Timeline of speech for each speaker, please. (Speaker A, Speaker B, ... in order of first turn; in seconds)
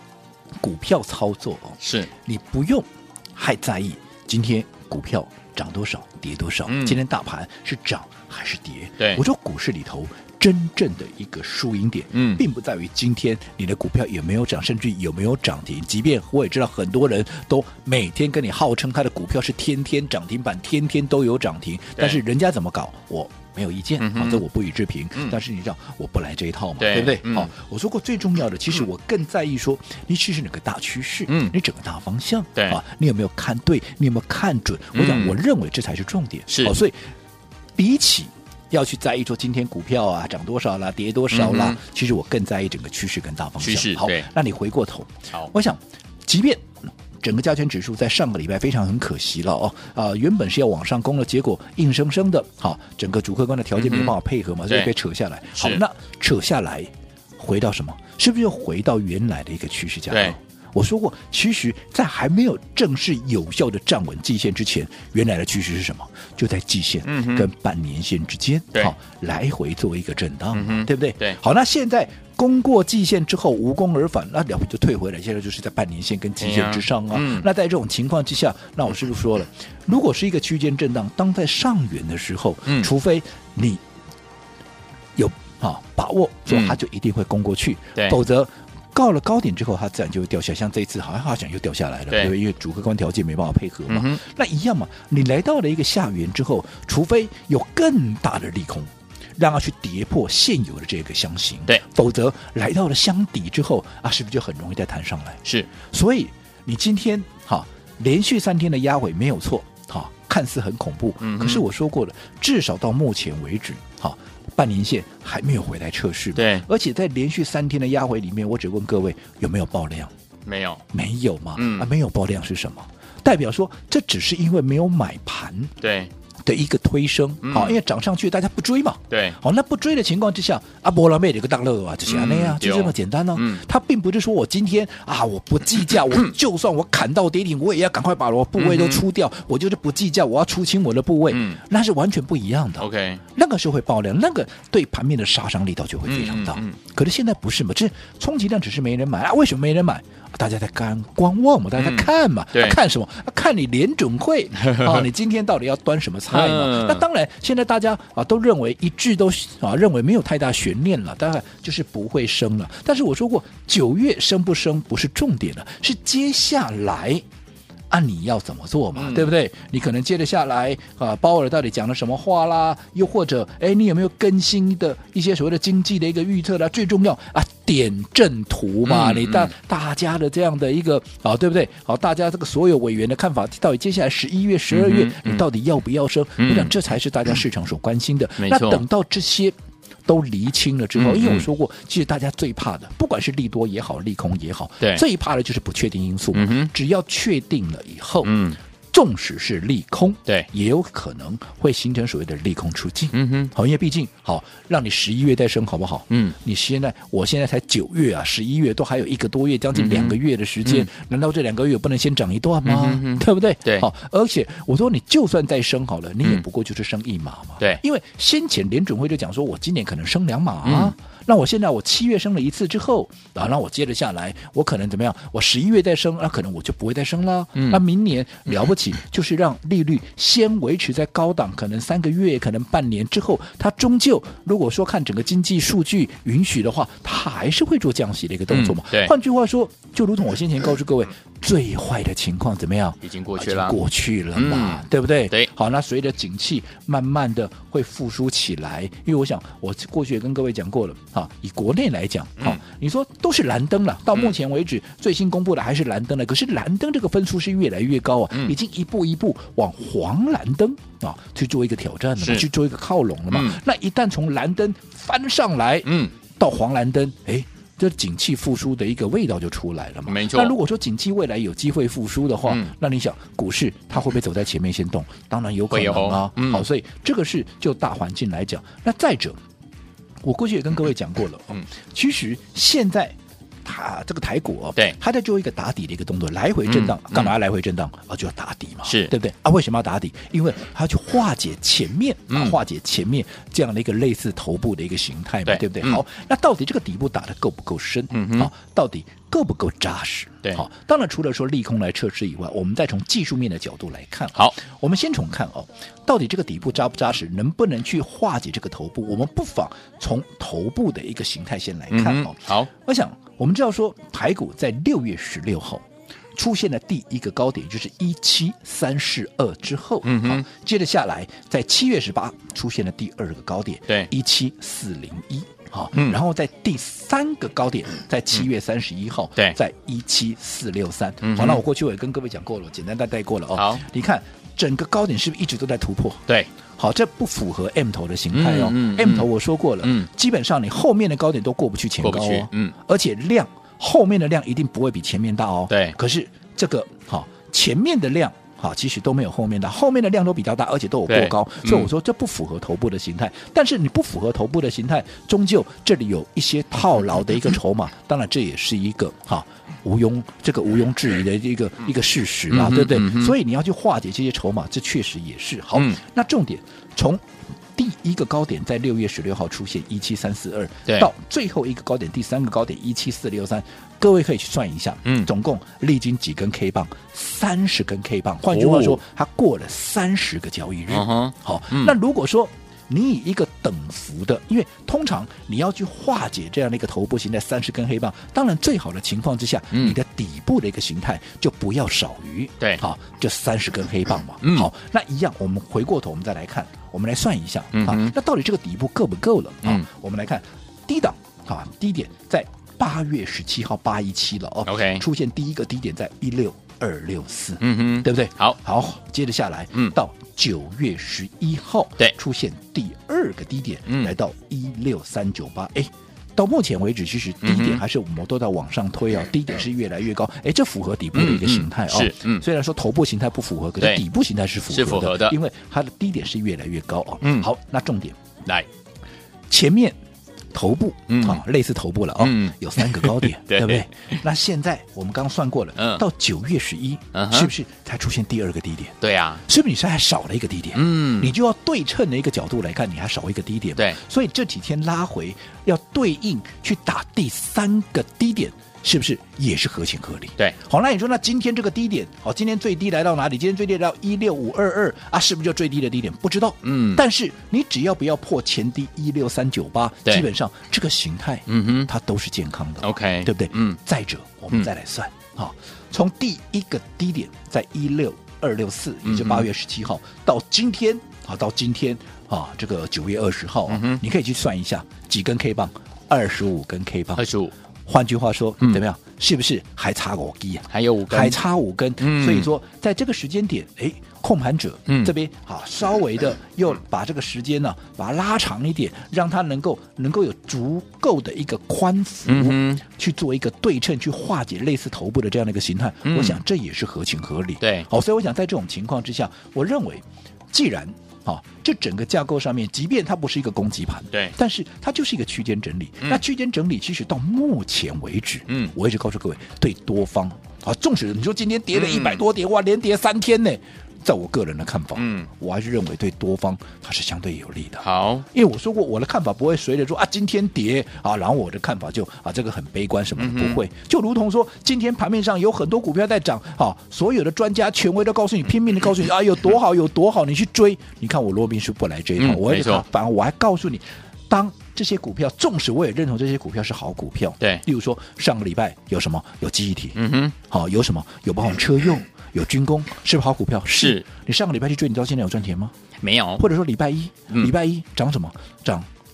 Speaker A: 0.6-37.0, 37.8-83.8, 85.2-120.1, 120.9-125.7, 126.4-167.2, 167.9-189.5, 190.1-198.3, 198.9-279.4, 280.2-336.2, 336.8-428.2, 429.5-430.0, 430.5-477.2, 477.9-545.7, 546.4-548.9
Speaker B: 1.8-2.1, 6.7-7.0, 12.1-12.4, 22.0-22.2, 24.0-24.4, 26.8-27.5, 31.3-31.5, 34.9-35.3, 36.5-36.7, 41.3-41.8, 43.6-44.3, 53.8-54.1, 55.5-55.8, 67.0-67.5, 70.5-71.4, 76.4-77.5, 86.5-86.8, 93.9-94.2, 111.2-111.6, 116.3-116.6, 120.5-120.8, 121.5-121.9, 125.8-126.1, 127.4-127.8, 129.1-129.4, 132.1-133.6, 138.6-139.0, 141.3-141.6, 142.8-143.2, 146.1-146.7, 151.8-152.8, 154.7-155.0, 156.3-157.0, 168.9-169.3, 178.8-179.5, 184.7-185.4, 186.4-186.7, 188.4-188.8, 190.9-191.4, 196.3-196.7, 198.2-198.6, 203.1-203.5, 209.7-210.9, 212.6-213.8, 220.6-220.9, 227.5-227.8, 238.5-239.1, 243.0-243.8, 244.3-245.5, 262.2-262.4, 263.3-263.6, 265.8-266.1, 270.1-270.5, 275.7-276.6, 286.6-287.3, 288.9-289.1, 292.3-292.6, 295.4-296.0, 298.1-298.5, 311.9-312.7, 320.0-320.4, 331.2-331.6, 333.5-333.8, 338.3-339.3, 339.8-340.1, 342.0-342.7, 345.7-345.9, 351.1-351.9, 362.5-363.3, 378.5-379.0, 380.9-381.9, 394.4-394.7, 397.7-398.1, 404.6-405.0, 407.6-408.6, 417.4-417.8, 421.1-422.4, 424.7-425.4, 431.1-431.4, 432.2-434.2, 435.8-436.0, 437.1-437.5, 439.0-439.4, 440.7-441.3, 456.6-457.0, 461.5-461.9, 462.8-463.8, 469.0-469.5, 473.7-474.0, 477.1-477.5, 480.7-481.4, 482.0-482.5, 492.3-492.8, 496.0-496.4, 497.6-497.9, 508.5-508.7, 511.7-512.2, 515.0-515.3, 517.8-518.2, 523.2-523.6, 532.2-532.8, 539.9-540.3, 543.8-544.0, 546.0-546.4